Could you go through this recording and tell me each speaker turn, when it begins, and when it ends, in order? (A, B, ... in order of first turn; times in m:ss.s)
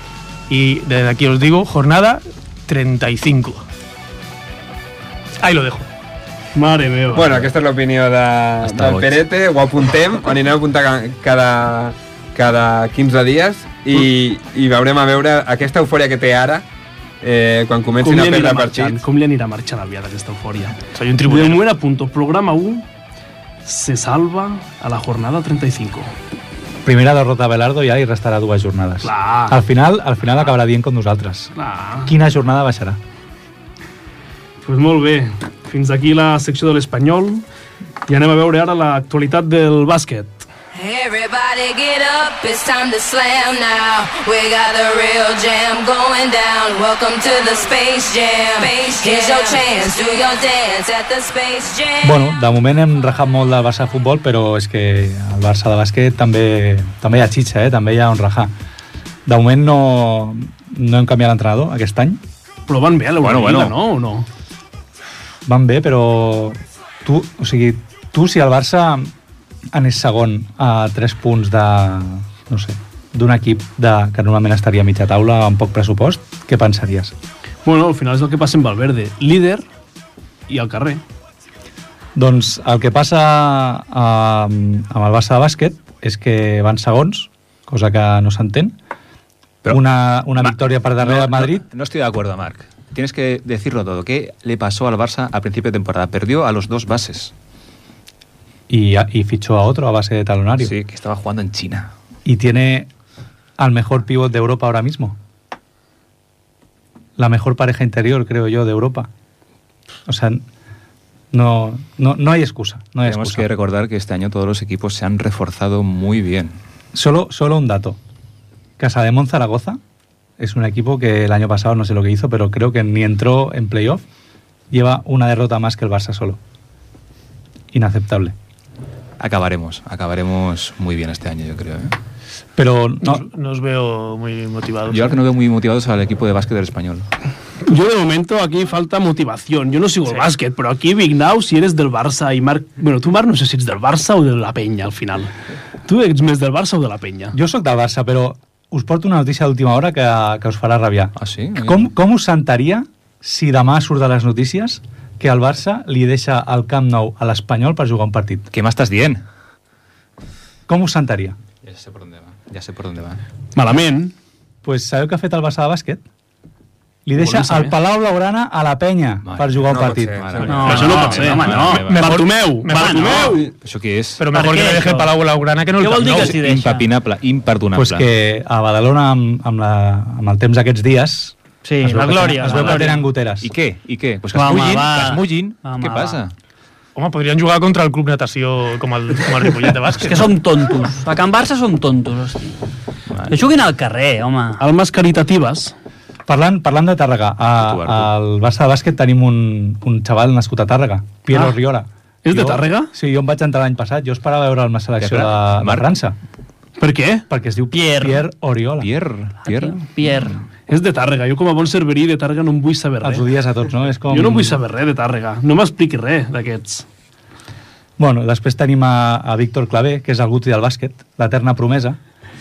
0:00.5-0:03.6 A
0:05.4-0:05.9 A
0:06.6-0:07.5 B
0:07.1-0:16.7 C
0:08.6-0:09.2 D
0:17.2-0:19.0 C
0:18.0-0:22.9 B
0:20.9-0:21.7 A
0:23.6-0:26.1 B
0:26.8-0:31.5 E
0:29.0-0:29.6 B
0:31.6-0:32.1 B
0:32.0-0:33.0 E
0:34.6-0:37.4 B
0:38.1-0:40.5 B
0:40.7-0:52.2 F
0:52.0-0:58.5 E
0:59.3-1:02.2 E
1:02.7-1:04.3 B
1:03.2-1:03.8 D
1:05.5-1:09.1 E
1:09.7-1:17.1 E
1:17.6-1:19.6 B
1:20.5-1:21.0 B
1:22.2-1:28.8 E
1:29.7-1:31.6 E
1:30.4-1:37.3 D
1:38.7-1:40.7 E
1:40.6-1:41.9 D
1:42.2-1:42.9 E
1:43.6-1:45.2 E
1:47.2-1:49.1 E
1:50.1-1:50.4 E
1:51.3-1:53.5 E
1:53.0-1:56.6 D
1:56.9-1:58.0 E
1:58.8-1:59.8 E
2:00.4-2:04.0 E
2:04.7-2:06.4 E
2:07.7-2:08.4 E
2:09.2-2:12.0 D
2:12.6-2:13.2 E
2:13.0-2:15.2 A
2:14.9-2:17.1 D
2:17.6-2:25.3 B
2:20.1-2:20.3 A
2:25.8-2:27.4 B
2:27.3-2:38.5 E
2:31.2-2:31.9 D
2:38.5-2:39.2 D
2:40.7-2:41.4 E
2:41.6-2:43.2 D
2:43.6-2:44.1 B
2:44.6-2:46.0 E
2:47.1-2:50.2 E
2:47.2-2:47.8 B
2:49.2-2:52.2 D
2:49.7-2:50.8 C
2:50.4-2:52.0 G
2:50.6-2:53.5 B
2:51.9-2:53.4 A
2:52.7-2:53.4 G
2:53.5-2:54.2 D
2:54.2-2:56.4 A
2:54.3-2:55.1 G
2:55.8-2:56.9 G
2:56.1-2:58.1 D
2:57.7-3:03.5 E
3:01.6-3:03.0 G
3:03.4-3:06.3 D
3:04.3-3:06.2 G
3:07.0-3:10.3 A
3:09.9-3:12.6 G
3:13.1-3:13.4 D
3:13.3-3:14.6 G
3:14.6-3:15.7 B
3:16.3-3:26.2 E
3:17.6-3:18.1 D
3:21.3-3:21.6 B
3:22.2-3:22.9 B
3:25.0-3:25.9 D
3:26.8-3:27.3 B
3:27.3-3:28.9 E
3:27.7-3:28.2 G
3:28.8-3:30.4 D
3:29.4-3:30.4 G
3:30.7-3:33.3 B
3:33.0-3:34.6 E
3:34.1-3:36.9 B
3:38.0-3:42.0 E